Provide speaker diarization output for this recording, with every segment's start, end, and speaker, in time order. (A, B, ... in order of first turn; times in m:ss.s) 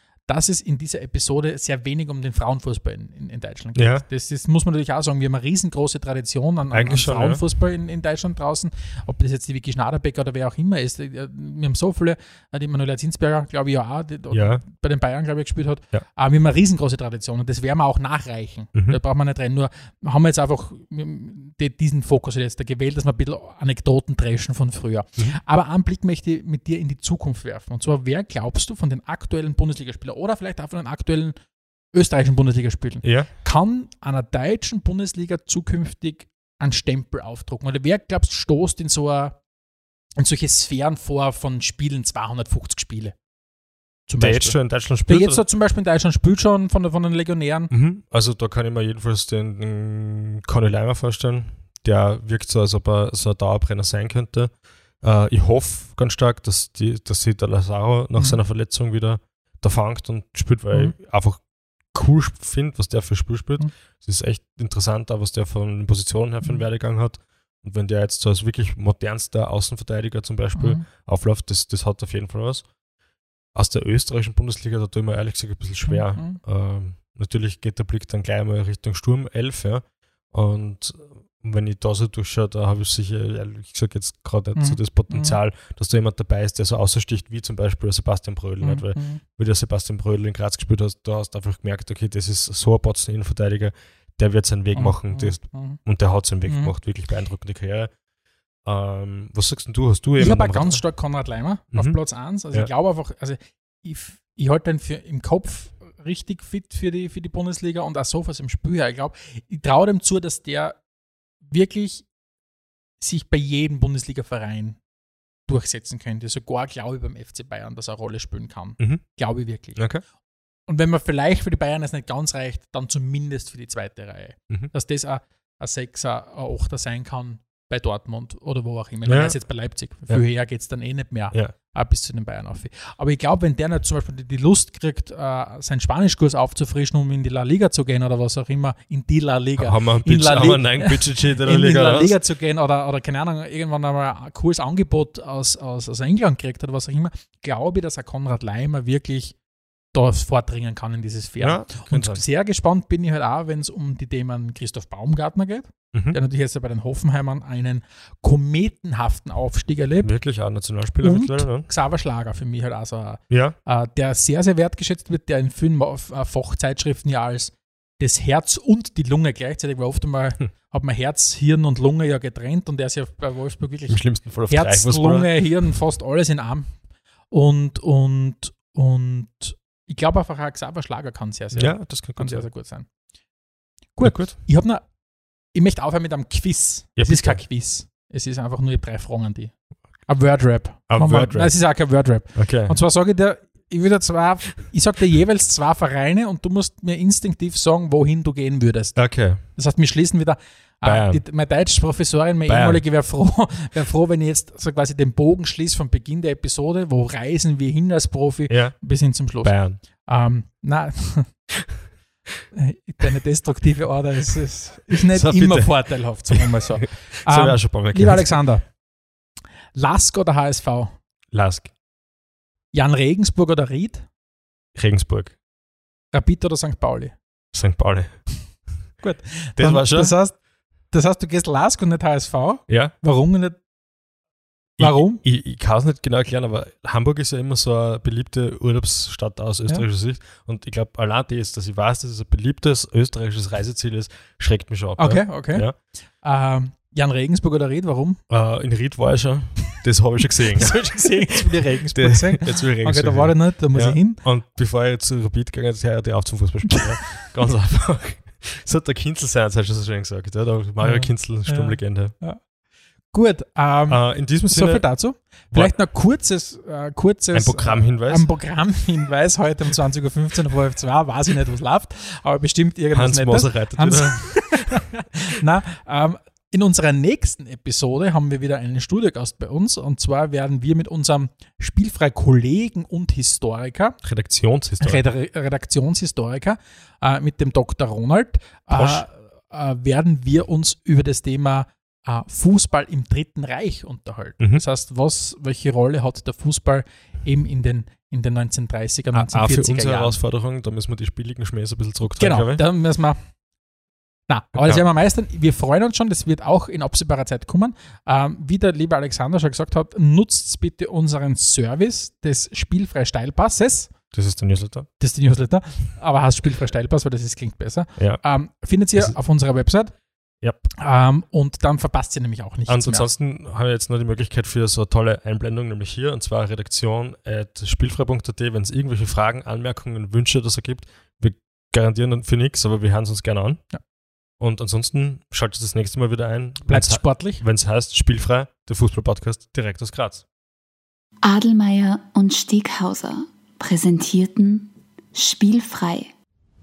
0:00.3-0:31.4 A
0:03.8-0:04.0 B
0:06.7-0:07.4 B
0:14.3-0:14.6 B
0:31.9-0:39.4 A
0:33.0-0:33.3 B
0:40.2-0:43.1 A
0:44.1-0:47.7 A
0:44.2-0:45.4 B
0:47.7-1:01.4 B
1:01.9-1:12.7 B
1:10.5-1:10.8 A
1:13.5-1:37.9 B
1:15.9-1:16.4 A
1:24.5-1:25.4 A
1:28.6-1:29.2 A
1:34.7-1:35.8 A
1:36.4-1:36.7 A
1:38.6-1:40.8 B
1:40.2-1:50.8 A
1:41.7-1:42.0 B
1:51.4-1:52.0 A
1:53.0-1:54.8 A
1:55.5-1:59.8 A
1:59.8-2:00.0 B
2:00.7-2:29.3 A
2:09.0-2:09.3 B
2:19.6-2:22.2 B
2:29.9-2:40.1 A
2:31.4-2:32.2 B
2:40.0-2:41.7 B
2:41.0-2:56.7 A
2:43.3-2:43.6 B
2:53.9-2:55.4 B
2:57.3-3:02.9 A
3:01.5-3:02.4 B
3:04.0-3:04.8 A
3:04.0-3:04.4 B
3:05.5-3:09.5 A
3:07.0-3:07.4 B
3:10.1-3:31.3 A
3:10.9-3:11.5 B
3:12.3-3:12.8 B
3:18.9-3:19.4 B
3:20.8-3:21.2 B
3:22.5-3:22.8 B
3:28.5-3:28.8 B
3:29.4-3:29.8 B
3:32.5-3:38.7 A
3:34.9-3:38.3 B
3:39.7-3:41.0 A
3:41.3-3:41.7 B
3:42.7-3:44.0 A
3:44.7-3:45.4 B
3:46.1-3:47.1 A
3:47.5-3:48.2 B
3:49.0-3:50.4 A
3:49.6-3:50.1 B
3:50.9-3:53.6 A
3:52.7-3:52.9 B
3:54.8-3:55.2 A
3:54.8-4:05.7 B
4:05.0-4:05.7 A
4:06.2-4:08.2 A
4:08.3-4:22.1 B
4:10.5-4:14.2 A
4:16.7-4:17.0 A
4:20.8-4:22.4 A
4:23.1-4:44.0 A
4:23.9-4:24.9 B
4:27.3-4:28.2 B
4:32.9-4:34.8 B
4:44.0-4:45.0 B
4:44.8-5:00.2 A
4:48.7-4:49.0 B
4:59.1-5:02.6 B
5:02.2-5:03.2 A
5:04.3-5:13.9 A
5:14.1-5:14.9 B
5:15.0-5:19.9 A
5:20.7-5:23.1 A
5:22.7-5:33.6 B
5:34.4-5:40.2 B
5:36.7-5:37.4 A
5:41.2-5:46.1 C